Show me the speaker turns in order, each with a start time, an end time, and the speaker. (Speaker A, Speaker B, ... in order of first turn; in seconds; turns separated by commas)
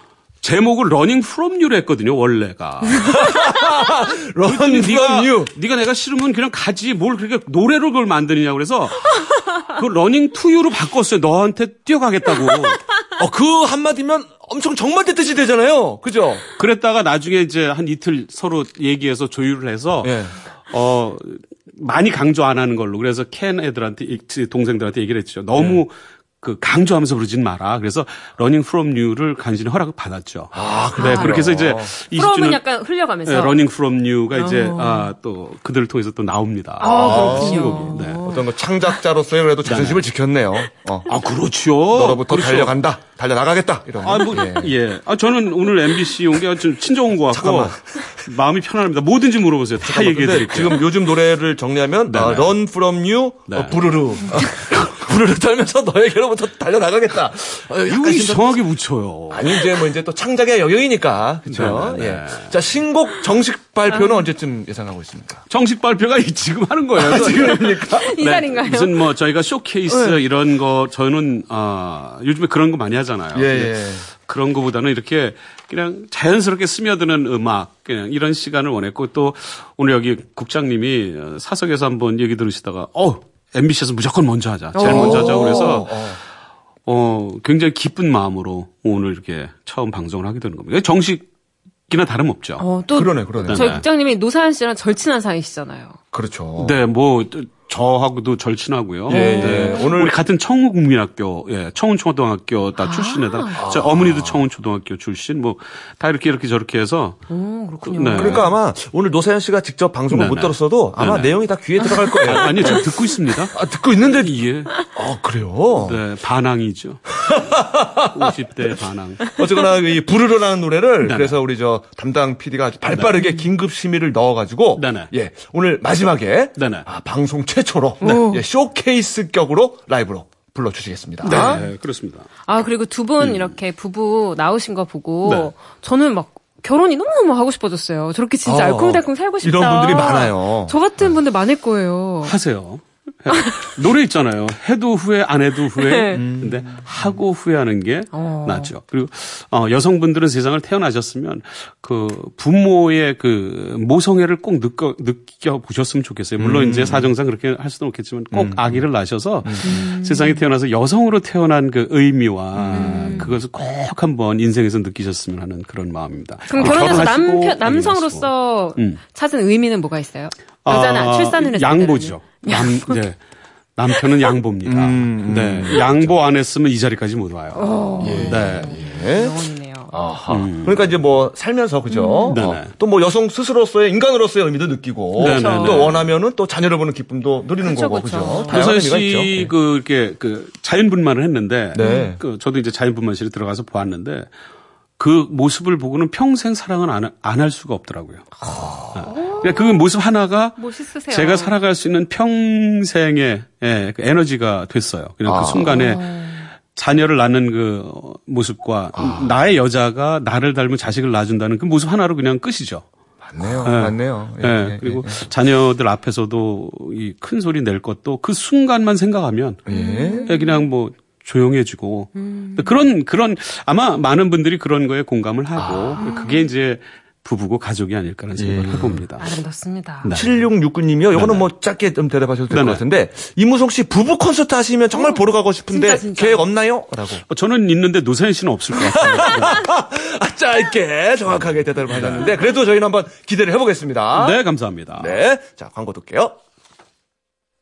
Speaker A: 0.4-3.3, Speaker B: 3.0-5.5, Speaker A: 4.4-12.8, Speaker B: 13.1-16.4, Speaker A: 16.6-32.6, Speaker B: 20.0-20.3, Speaker B: 25.5-25.8, Speaker B: 30.5-31.9, Speaker C: 31.0-31.5, Speaker C: 32.1-33.6, Speaker A: 33.2-38.2, Speaker C: 34.3-35.1, Speaker C: 36.8-38.5, Speaker B: 36.8-41.1, Speaker A: 39.6-40.0, Speaker A: 41.1-42.8, Speaker B: 41.9-44.7, Speaker A: 44.0-50.8, Speaker B: 47.3-47.8, Speaker B: 49.8-58.6, Speaker A: 52.1-52.6, Speaker A: 53.5-53.8, Speaker A: 57.9-59.6, Speaker B: 59.3-65.4, Speaker A: 61.5-62.5, Speaker C: 63.9-64.2, Speaker A: 65.5-73.7, Speaker B: 67.0-68.1, Speaker C: 67.4-69.0, Speaker C: 69.9-70.2, Speaker B: 73.3-74.1, Speaker A: 74.2-86.0, Speaker C: 84.7-85.8, Speaker B: 84.8-86.2, Speaker A: 86.8-91.3, Speaker A: 91.9-92.6, Speaker C: 92.6-96.0, Speaker B: 92.9-93.8, Speaker A: 93.5-93.8, Speaker B: 96.1-96.8, Speaker A: 96.6-107.2, Speaker B: 99.1-100.2, Speaker C: 99.1-99.9, Speaker C: 102.8-103.6, Speaker B: 103.5-104.4, Speaker C: 107.3-108.5, Speaker A: 107.8-108.4, Speaker B: 108.2-113.0, Speaker A: 110.1-111.4, Speaker C: 111.8-112.7, Speaker A: 112.0-113.6, Speaker B: 113.5-116.0, Speaker A: 114.1-114.7, Speaker A: 115.8-117.2, Speaker B: 117.1-118.3, Speaker A: 118.0-119.4, Speaker B: 119.3-131.6, Speaker A: 121.0-121.4, Speaker A: 122.9-123.2, Speaker A: 124.8-125.1, Speaker A: 126.6-126.8, Speaker C: 128.0-128.4, Speaker A: 131.2-132.3, Speaker C: 131.3-131.6, Speaker C: 132.5-142.3, Speaker A: 133.2-133.4, Speaker A: 135.2-135.5, Speaker B: 138.4-140.8, Speaker A: 142.2-169.0, Speaker C: 145.8-146.2, Speaker B: 146.1-146.9, Speaker C: 148.1-148.7, Speaker B: 156.4-157.1, Speaker B: 158.3-158.8, Speaker B: 159.4-159.8, Speaker C: 159.6-160.4, Speaker B: 162.5-163.3, Speaker C: 162.7-163.4, Speaker C: 166.5-173.0, Speaker B: 166.6-167.0, Speaker A: 170.6-173.2, Speaker A: 173.8-178.8, Speaker B: 174.6-176.2, Speaker C: 177.5-179.9, Speaker B: 178.0-179.4, Speaker B: 179.9-189.5, Speaker A: 180.3-180.9, Speaker C: 181.9-182.4, Speaker A: 182.3-182.7, Speaker C: 185.2-185.9, Speaker A: 185.2-186.1, Speaker C: 187.6-188.6, Speaker A: 188.5-194.2, Speaker B: 191.7-192.2, Speaker C: 191.8-192.1, Speaker A: 195.0-198.3, Speaker B: 198.5-199.1, Speaker C: 198.5-199.8, Speaker A: 198.9-212.8, Speaker C: 200.6-201.5, Speaker B: 205.2-205.8, Speaker C: 205.7-206.4, Speaker B: 208.9-209.3, Speaker B: 213.2-215.2, Speaker A: 213.6-219.7, Speaker B: 219.7-220.3, Speaker C: 219.7-220.6, Speaker A: 220.2-229.3, Speaker C: 222.2-222.7, Speaker B: 225.6-226.0, Speaker C: 226.0-226.5, Speaker B: 228.3-229.0, Speaker C: 229.2-230.1, Speaker A: 230.0-230.3, Speaker B: 230.1-237.2, Speaker A: 231.1-231.4, Speaker A: 232.5-232.8, Speaker C: 234.9-236.4, Speaker A: 237.3-239.6, Speaker B: 238.7-244.4, Speaker A: 241.9-242.3, Speaker A: 244.1-245.2, Speaker B: 244.9-246.3